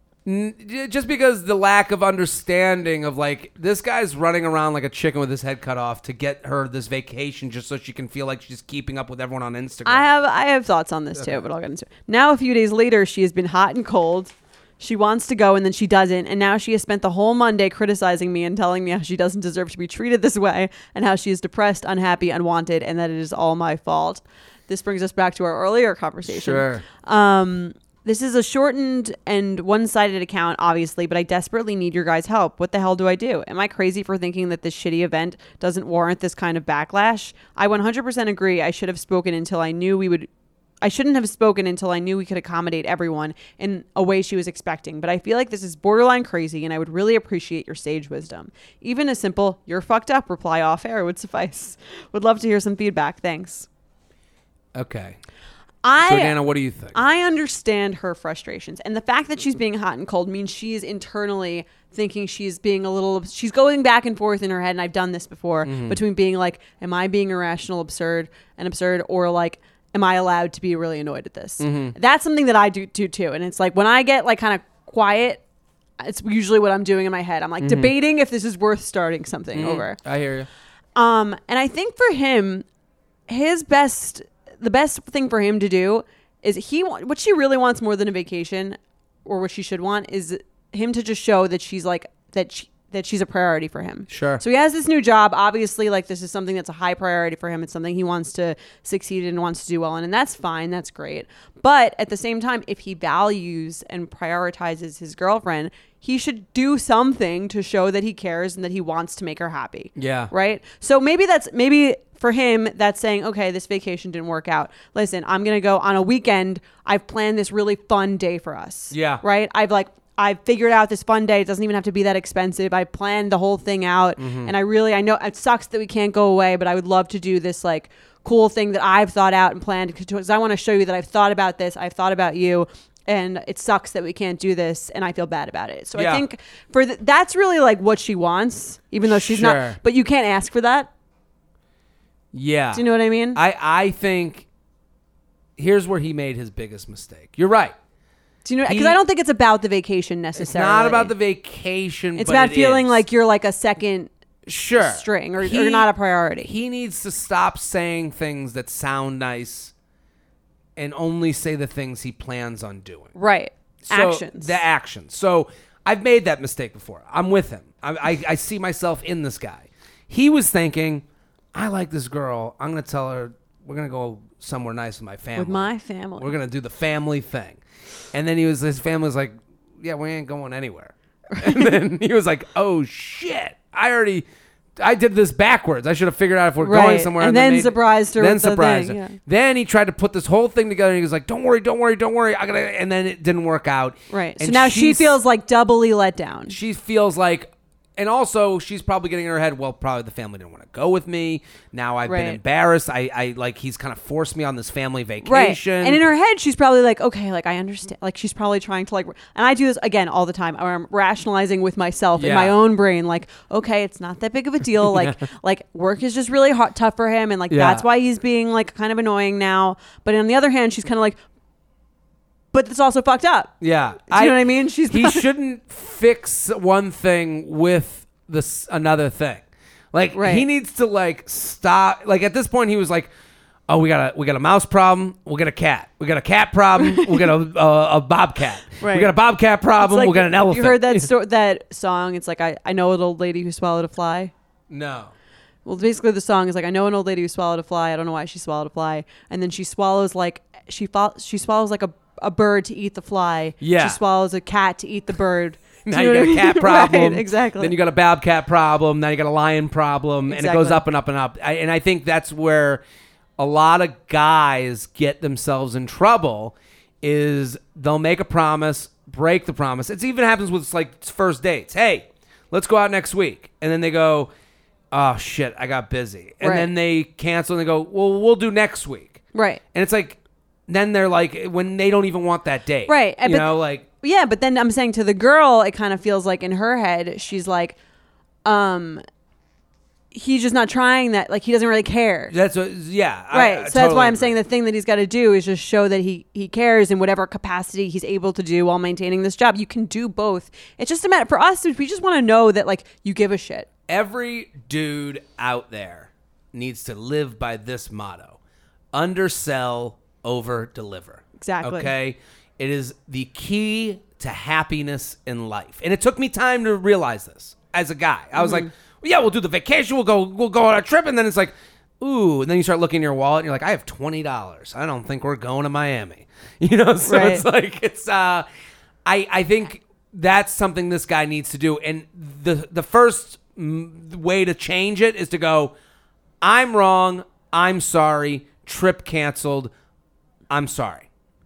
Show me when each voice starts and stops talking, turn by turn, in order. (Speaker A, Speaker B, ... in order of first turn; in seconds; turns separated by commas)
Speaker A: 0.2-10.1, Speaker B: 9.8-40.3, Speaker A: 11.1-11.4, Speaker A: 26.2-26.8, Speaker B: 40.8-53.7, Speaker A: 54.7-55.2, Speaker B: 55.8-56.4, Speaker A: 56.0-57.0, Speaker B: 56.9-75.4, Speaker A: 65.6-66.0, Speaker A: 71.6-72.0, Speaker B: 76.0-80.0, Speaker A: 77.6-77.9, Speaker A: 79.5-80.5, Speaker B: 81.0-82.6, Speaker B: 83.3-140.9, Speaker A: 94.1-94.4, Speaker A: 110.0-110.3, Speaker A: 118.9-119.2, Speaker A: 124.2-124.5, Speaker A: 135.9-136.2, Speaker A: 139.0-139.8, Speaker A: 142.3-144.5, Speaker B: 142.7-143.4, Speaker A: 145.6-147.7, Speaker B: 148.4-151.1, Speaker A: 148.7-149.0, Speaker A: 150.4-153.0, Speaker B: 152.2-154.1, Speaker A: 154.4-155.9, Speaker B: 154.8-156.5, Speaker A: 156.4-159.7, Speaker A: 160.8-163.1, Speaker B: 163.1-164.6, Speaker A: 163.8-177.6, Speaker B: 175.4-176.3, Speaker A: 178.1-184.2, Speaker A: 184.8-195.2, Speaker B: 186.6-189.2, Speaker B: 194.1-196.6, Speaker A: 196.5-206.0, Speaker B: 202.1-202.4, Speaker B: 205.2-221.2, Speaker A: 212.2-212.6, Speaker A: 214.8-215.2, Speaker A: 217.5-217.8, Speaker B: 222.5-223.5, Speaker A: 223.6-233.1, Speaker B: 224.1-225.2, Speaker B: 230.1-230.4, Speaker A: 233.7-241.1, Speaker B: 236.8-237.2, Speaker B: 238.8-239.1, Speaker B: 239.8-244.3, Speaker A: 244.7-245.1, Speaker B: 245.7-257.7, Speaker A: 253.6-254.0, Speaker A: 255.8-262.8, Speaker B: 260.3-260.8, Speaker A: 263.4-274.3, Speaker A: 274.9-279.2, Speaker B: 276.4-276.7, Speaker B: 279.3-279.6, Speaker A: 279.7-283.9, Speaker B: 282.9-283.5, Speaker B: 284.0-287.8, Speaker B: 288.4-289.0, Speaker B: 290.1-292.3, Speaker A: 292.3-294.4, Speaker B: 293.3-303.6, Speaker A: 303.9-308.4, Speaker A: 308.9-328.4, Speaker B: 311.4-311.9, Speaker B: 318.4-318.7, Speaker B: 327.1-327.4, Speaker A: 329.0-335.7, Speaker A: 336.4-339.7, Speaker A: 340.5-341.1